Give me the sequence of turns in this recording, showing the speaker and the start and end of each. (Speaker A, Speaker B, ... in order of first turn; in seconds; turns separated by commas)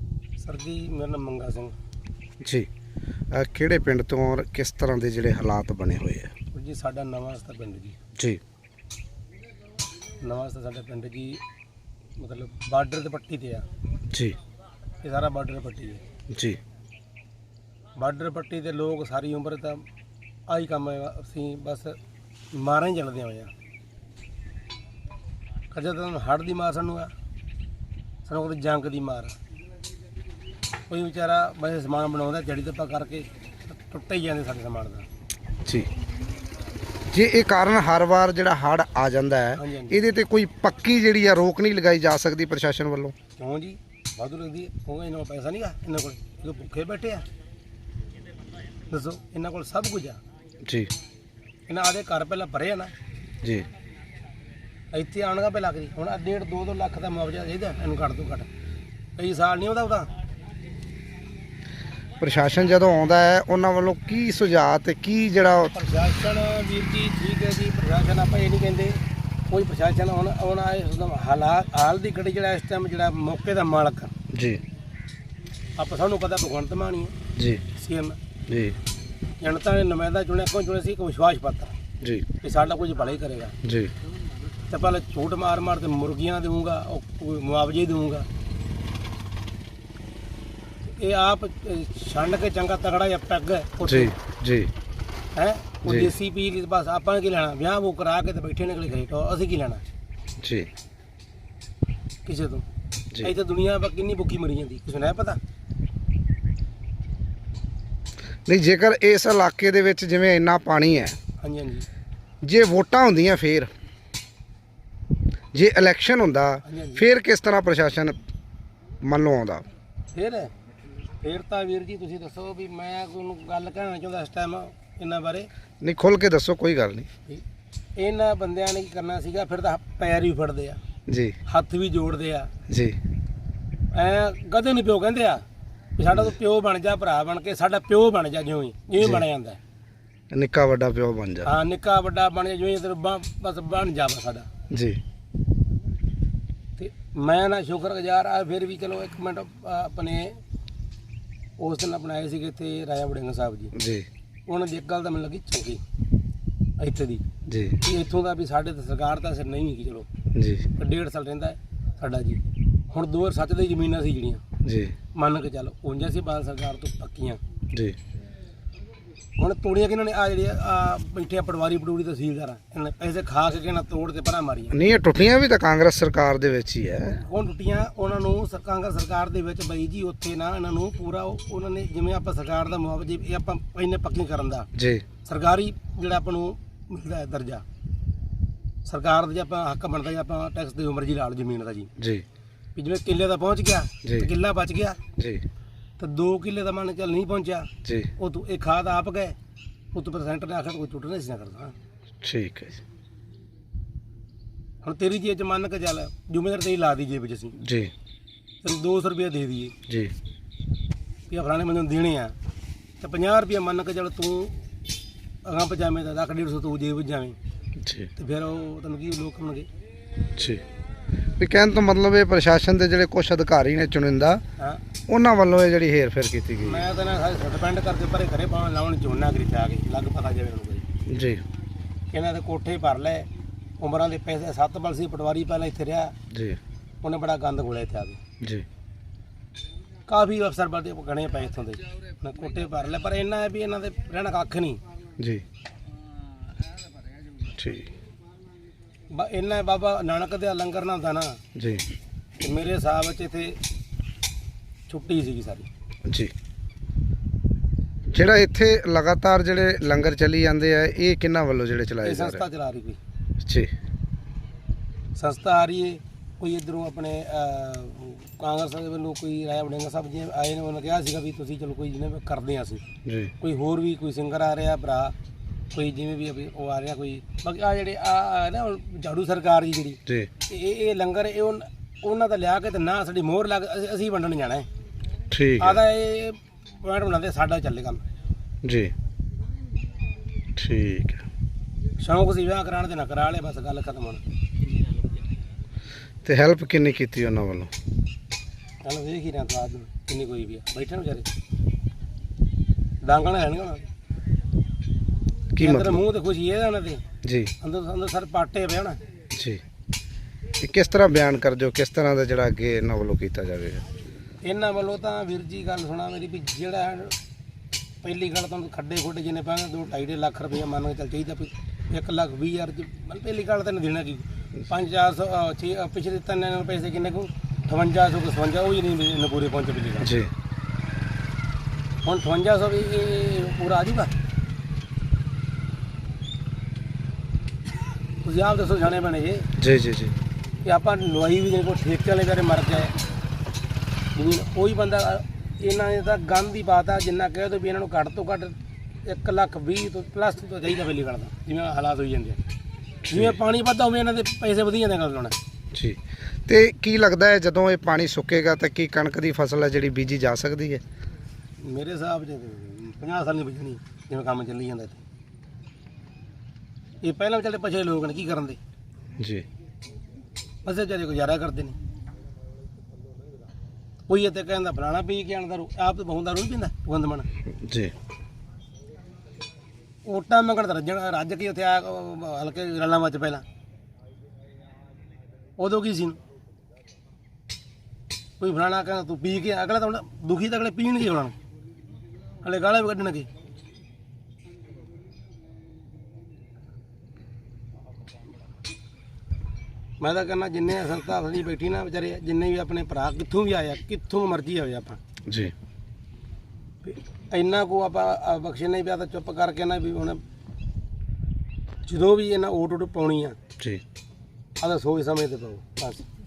Speaker A: 0.4-1.7, Speaker B: 2.4-2.7, Speaker B: 3.3-6.3, Speaker A: 6.5-8.0, Speaker A: 10.2-11.4, Speaker A: 12.2-13.7, Speaker B: 14.1-14.4, Speaker A: 15.0-16.0, Speaker B: 16.3-16.6, Speaker A: 18.0-19.8, Speaker A: 20.5-22.0, Speaker A: 22.5-23.5, Speaker A: 25.7-27.1, Speaker A: 28.2-29.4, Speaker A: 30.9-35.1, Speaker B: 37.1-43.1, Speaker A: 39.6-40.0, Speaker A: 43.4-47.2, Speaker A: 48.9-50.2, Speaker B: 50.6-50.9, Speaker A: 51.7-52.9, Speaker A: 54.9-58.5, Speaker A: 59.2-60.1, Speaker B: 62.2-65.7, Speaker A: 65.7-74.1, Speaker B: 74.3-74.6, Speaker A: 75.8-77.1, Speaker B: 77.3-77.6, Speaker A: 77.7-78.2, Speaker B: 78.5-78.8, Speaker A: 79.4-81.8, Speaker B: 82.0-82.2, Speaker A: 82.4-83.5, Speaker B: 83.6-83.9, Speaker A: 84.7-88.3, Speaker A: 90.8-94.1, Speaker B: 93.8-94.7, Speaker A: 95.3-99.8, Speaker B: 95.8-96.1, Speaker B: 100.4-100.7, Speaker A: 102.2-102.6, Speaker A: 103.2-105.4, Speaker B: 108.5-111.2, Speaker A: 111.4-111.9, Speaker B: 112.4-113.7, Speaker B: 115.5-118.2, Speaker A: 116.6-117.0, Speaker B: 119.0-119.7, Speaker A: 120.1-120.5, Speaker A: 121.2-125.5, Speaker B: 125.8-127.1, Speaker A: 128.0-130.8, Speaker B: 131.1-131.3, Speaker A: 131.5-132.5, Speaker B: 132.7-133.0, Speaker A: 133.9-135.4, Speaker A: 136.0-139.6, Speaker B: 140.3-141.5, Speaker A: 141.4-144.5, Speaker B: 144.7-145.0, Speaker A: 146.8-150.4, Speaker A: 151.6-153.7, Speaker B: 153.7-154.1, Speaker A: 154.5-155.8, Speaker A: 156.8-157.2, Speaker B: 157.5-157.8, Speaker A: 157.8-160.1, Speaker B: 160.3-160.7, Speaker A: 160.8-164.4, Speaker B: 164.6-164.9, Speaker A: 165.1-167.4, Speaker B: 167.7-168.0, Speaker A: 169.4-174.8, Speaker B: 174.7-177.2, Speaker A: 177.1-184.7, Speaker B: 184.7-185.0, Speaker A: 185.2-187.6, Speaker A: 188.8-191.9, Speaker B: 192.0-192.2, Speaker A: 192.8-195.0, Speaker B: 194.0-194.3, Speaker B: 195.2-195.4, Speaker A: 196.0-199.3, Speaker B: 197.8-198.1, Speaker A: 199.9-201.7, Speaker B: 202.2-202.8, Speaker A: 204.8-207.6, Speaker B: 207.6-207.9, Speaker A: 208.6-209.7, Speaker B: 209.9-210.1, Speaker A: 211.3-212.3, Speaker A: 213.0-214.6, Speaker A: 215.4-217.4, Speaker B: 217.8-218.1, Speaker A: 218.2-219.7, Speaker B: 220.3-220.6, Speaker B: 221.4-224.4, Speaker B: 225.1-226.8, Speaker A: 226.6-230.8, Speaker B: 231.1-231.4, Speaker A: 232.1-233.3, Speaker A: 233.8-236.1, Speaker B: 236.3-236.6, Speaker A: 237.0-238.2, Speaker A: 240.1-244.8, Speaker B: 245.2-245.4, Speaker B: 247.4-247.9, Speaker A: 249.1-251.4, Speaker B: 251.5-251.8, Speaker A: 252.4-253.6, Speaker A: 254.9-255.7, Speaker B: 256.1-256.3, Speaker B: 258.1-262.4, Speaker A: 262.0-263.0, Speaker B: 263.4-263.7, Speaker A: 265.1-272.8, Speaker B: 273.0-273.3, Speaker A: 273.4-275.1, Speaker A: 275.7-284.6, Speaker B: 285.3-285.8, Speaker A: 285.6-288.0, Speaker B: 288.6-288.9, Speaker B: 290.6-291.2, Speaker A: 292.0-294.2, Speaker B: 296.2-297.7, Speaker A: 298.8-301.2, Speaker A: 303.0-303.8, Speaker B: 305.5-306.0, Speaker A: 305.6-307.0, Speaker B: 307.2-307.5, Speaker A: 307.6-309.0, Speaker B: 309.3-309.6, Speaker B: 310.6-313.8, Speaker A: 314.4-317.1, Speaker A: 318.0-330.1, Speaker B: 330.0-330.3, Speaker A: 332.0-334.1, Speaker A: 338.2-339.5, Speaker B: 339.6-340.1, Speaker A: 340.6-342.9, Speaker A: 344.1-352.4, Speaker B: 353.0-353.4, Speaker A: 353.1-355.3, Speaker B: 355.7-360.8, Speaker A: 361.6-365.0, Speaker A: 367.0-368.6, Speaker B: 369.2-369.4, Speaker A: 370.6-371.8, Speaker A: 374.1-377.3, Speaker B: 377.5-377.9, Speaker A: 380.0-383.4, Speaker A: 385.6-386.2, Speaker A: 388.4-391.3, Speaker A: 392.4-393.3, Speaker A: 400.0-405.0, Speaker B: 405.3-405.5, Speaker A: 406.8-410.2, Speaker A: 411.9-413.4, Speaker A: 414.6-416.0